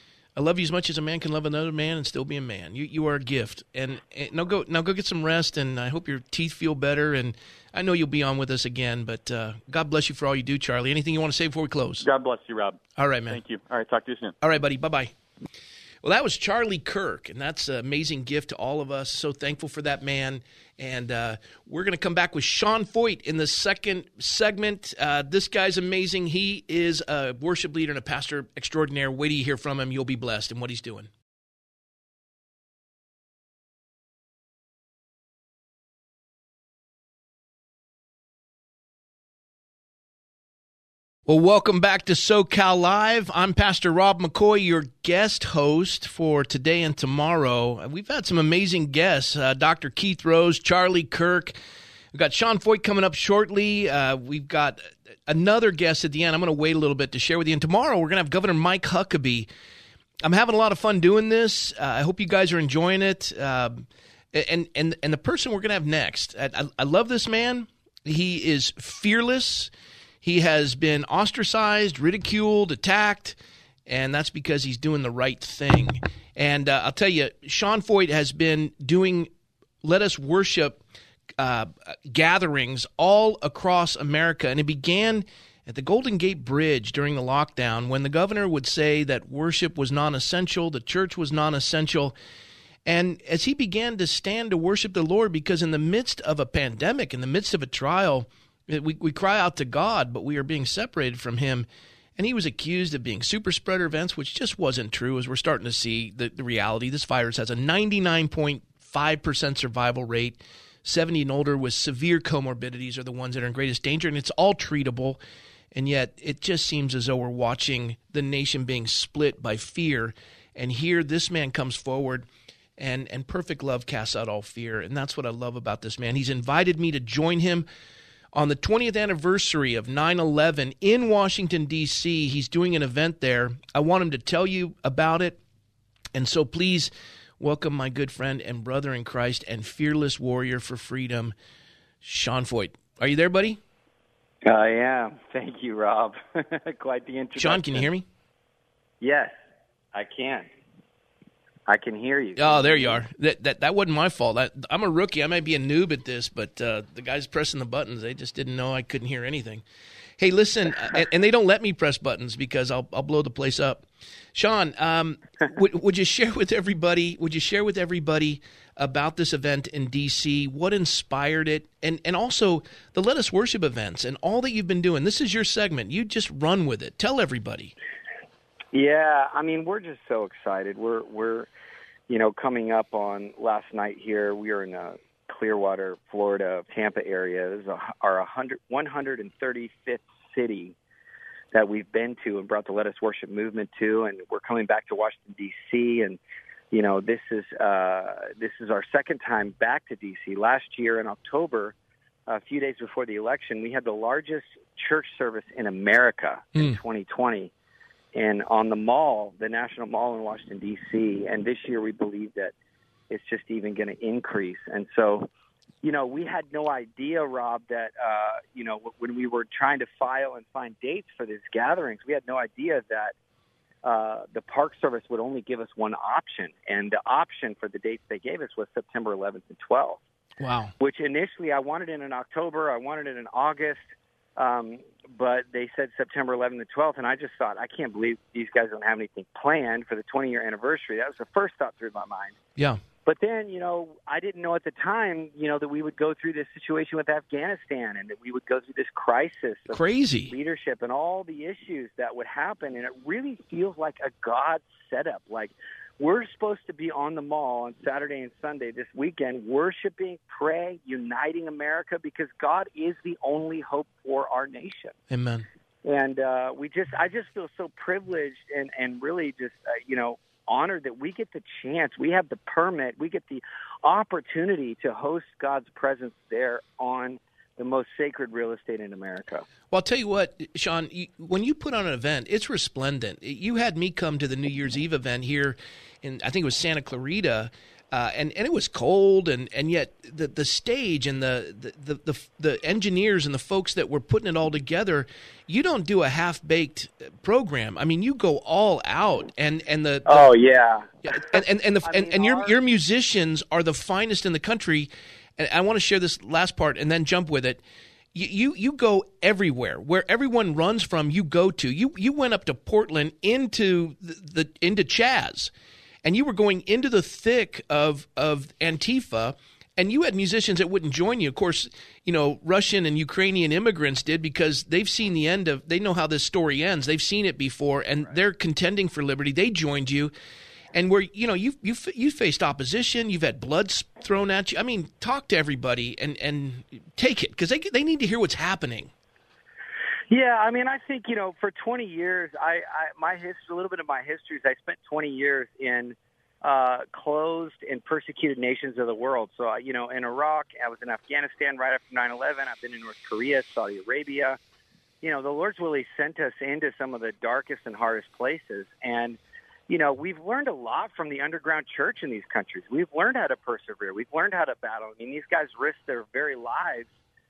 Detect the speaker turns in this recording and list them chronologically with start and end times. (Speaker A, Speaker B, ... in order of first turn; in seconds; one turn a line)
Speaker A: 0.4-12.1
Speaker B: 12.0-14.4
Speaker A: 13.0-13.4
Speaker A: 14.4-15.1
Speaker A: 16.0-31.1
Speaker A: 41.3-51.6
Speaker A: 52.1-59.5
Speaker A: 60.2-69.7
Speaker A: 70.2-73.4
Speaker A: 73.9-79.3
Speaker A: 79.8-80.8
Speaker A: 81.4-92.2
Speaker A: 92.9-115.2
Speaker A: 115.7-122.3
Speaker A: 122.8-127.7
Speaker A: 128.3-135.4
Speaker A: 136.1-141.3
Speaker A: 142.0-143.6
Speaker C: 144.4-147.9
Speaker A: 147.4-148.1
Speaker C: 149.0-149.3
Speaker C: 149.9-150.5
Speaker C: 151.7-153.0
Speaker A: 152.4-159.6
Speaker A: 160.2-177.7
Speaker C: 178.7-181.5
Speaker C: 182.1-190.8
Speaker C: 191.5-196.2
Speaker C: 196.7-201.8
Speaker C: 202.3-207.5
Speaker C: 208.2-212.5
Speaker C: 213.1-215.3
Speaker C: 215.8-223.1
Speaker C: 223.8-230.0
Speaker A: 230.4-230.7
Speaker C: 230.8-233.8
Speaker C: 234.4-242.4
Speaker C: 243.1-264.9
Speaker A: 249.7-250.3
Speaker A: 265.1-265.5
Speaker C: 265.9-279.4
Speaker A: 279.7-300.4
Speaker C: 300.1-302.5
Speaker A: 301.0-307.6
Speaker A: 308.1-315.5
Speaker A: 316.0-330.1
Speaker A: 330.8-338.9
Speaker C: 340.1-354.4
Speaker C: 355.0-366.9